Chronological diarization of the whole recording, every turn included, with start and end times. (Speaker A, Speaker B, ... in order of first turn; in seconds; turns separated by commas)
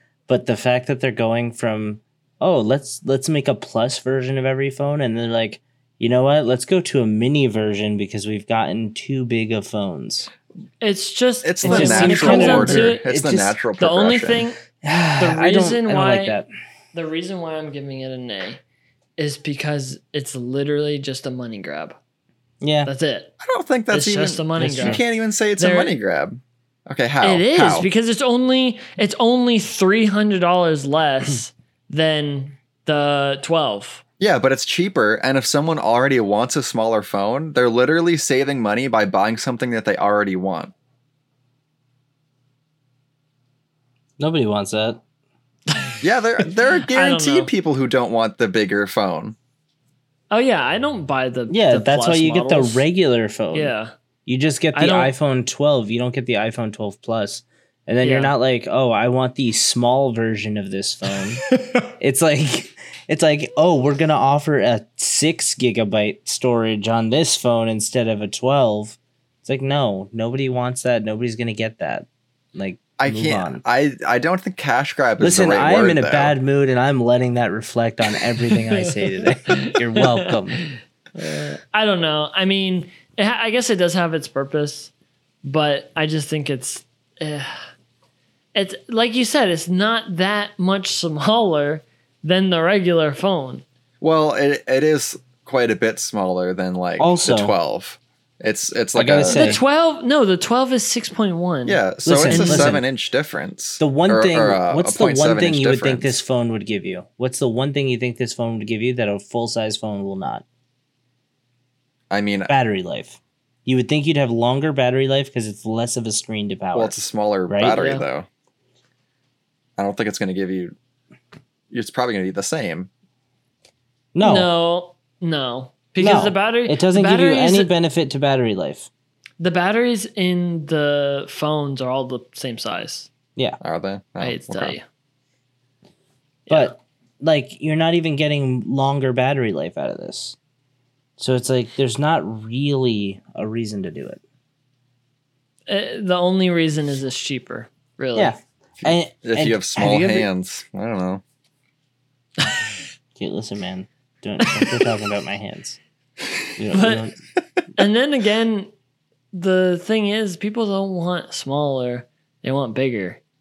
Speaker A: 0.3-10.3, Speaker B: 10.8-13.0, Speaker C: 11.4-14.5, Speaker A: 11.6-13.6, Speaker B: 13.8-14.6, Speaker A: 14.8-16.5, Speaker B: 15.2-16.4, Speaker B: 16.9-18.6, Speaker B: 19.2-22.0, Speaker A: 22.6-22.9, Speaker B: 22.9-23.3, Speaker C: 23.4-27.9, Speaker B: 23.9-25.0, Speaker A: 24.6-25.0, Speaker B: 25.6-25.9, Speaker B: 27.2-34.0, Speaker C: 34.2-40.7, Speaker A: 44.2-45.0, Speaker B: 45.7-46.0, Speaker C: 46.0-49.4, Speaker B: 46.9-47.5, Speaker B: 50.3-52.8, Speaker A: 51.5-53.7, Speaker B: 53.5-53.9, Speaker A: 54.2-61.5, Speaker B: 54.7-55.1, Speaker B: 58.0-58.3, Speaker A: 62.0-73.6, Speaker C: 73.0-76.3, Speaker A: 75.2-80.6, Speaker B: 78.5-84.9, Speaker B: 85.4-87.6, Speaker B: 88.5-93.6, Speaker C: 94.0-99.5, Speaker A: 97.0-97.5, Speaker A: 98.9-99.6, Speaker B: 99.2-102.8, Speaker C: 101.6-106.2, Speaker A: 102.0-102.8, Speaker A: 103.8-110.4, Speaker C: 112.1-112.5, Speaker A: 112.5-117.8, Speaker C: 116.7-118.3, Speaker B: 117.7-118.0, Speaker C: 119.8-120.7, Speaker C: 121.7-122.9, Speaker A: 124.1-124.5, Speaker B: 124.2-127.7, Speaker A: 126.0-128.9, Speaker B: 129.4-133.1, Speaker C: 133.6-134.8, Speaker B: 134.2-134.8, Speaker B: 136.5-136.8, Speaker A: 136.5-140.3, Speaker A: 141.2-144.2, Speaker B: 145.7-148.3, Speaker A: 148.1-150.3, Speaker C: 148.8-151.2, Speaker A: 153.2-155.8, Speaker B: 154.5-154.8, Speaker A: 156.6-157.1, Speaker B: 156.7-157.1, Speaker B: 157.8-158.7, Speaker B: 159.3-163.2